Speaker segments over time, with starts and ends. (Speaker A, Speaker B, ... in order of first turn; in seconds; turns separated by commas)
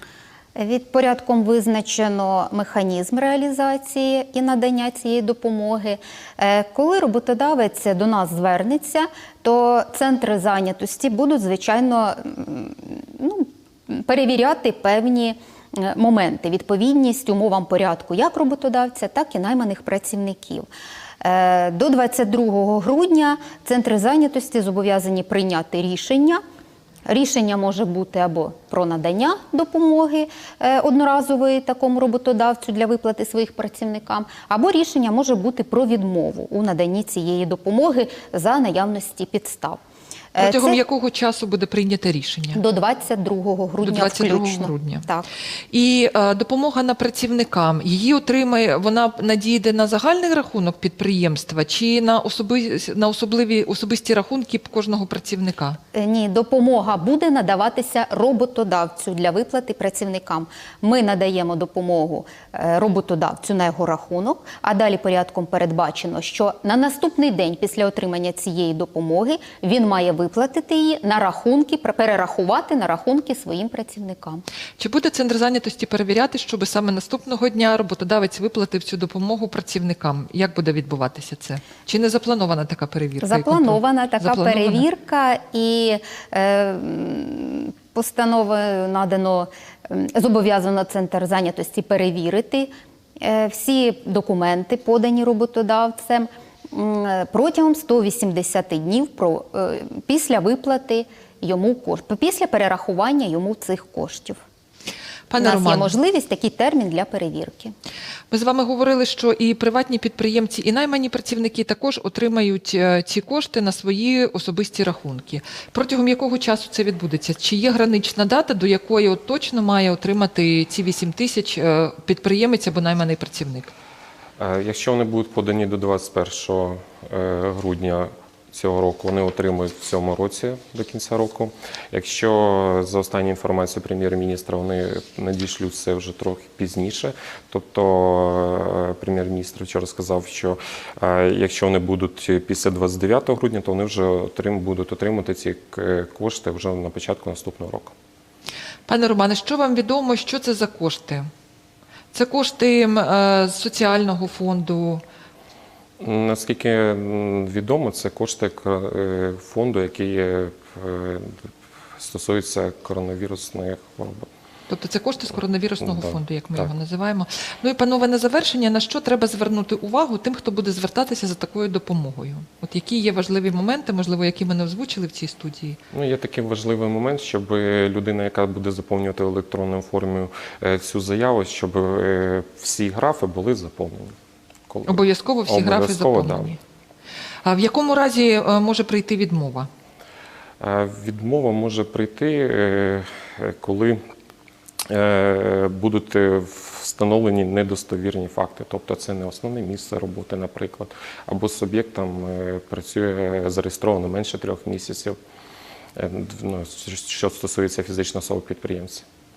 Speaker A: 0.6-20.7, Speaker A: 21.2-26.4, Speaker A: 27.1-39.8, Speaker A: 40.3-40.8, Speaker B: 40.4-42.6, Speaker A: 42.5-45.2, Speaker B: 43.8-45.1, Speaker B: 45.7-55.8, Speaker A: 55.9-74.4, Speaker B: 74.8-84.8, Speaker A: 83.2-92.7, Speaker A: 93.2-104.4, Speaker B: 105.3-106.0, Speaker A: 105.4-107.7, Speaker B: 108.3-123.7, Speaker C: 124.4-147.9, Speaker B: 148.9-151.3, Speaker B: 152.1-155.0, Speaker C: 156.0-161.4, Speaker C: 162.0-164.3, Speaker B: 164.7-175.8, Speaker C: 165.8-166.7, Speaker C: 175.9-184.1, Speaker C: 184.7-186.6, Speaker B: 184.9-186.6, Speaker B: 187.4-189.7, Speaker C: 190.6-194.0, Speaker C: 194.9-205.2, Speaker C: 205.9-209.0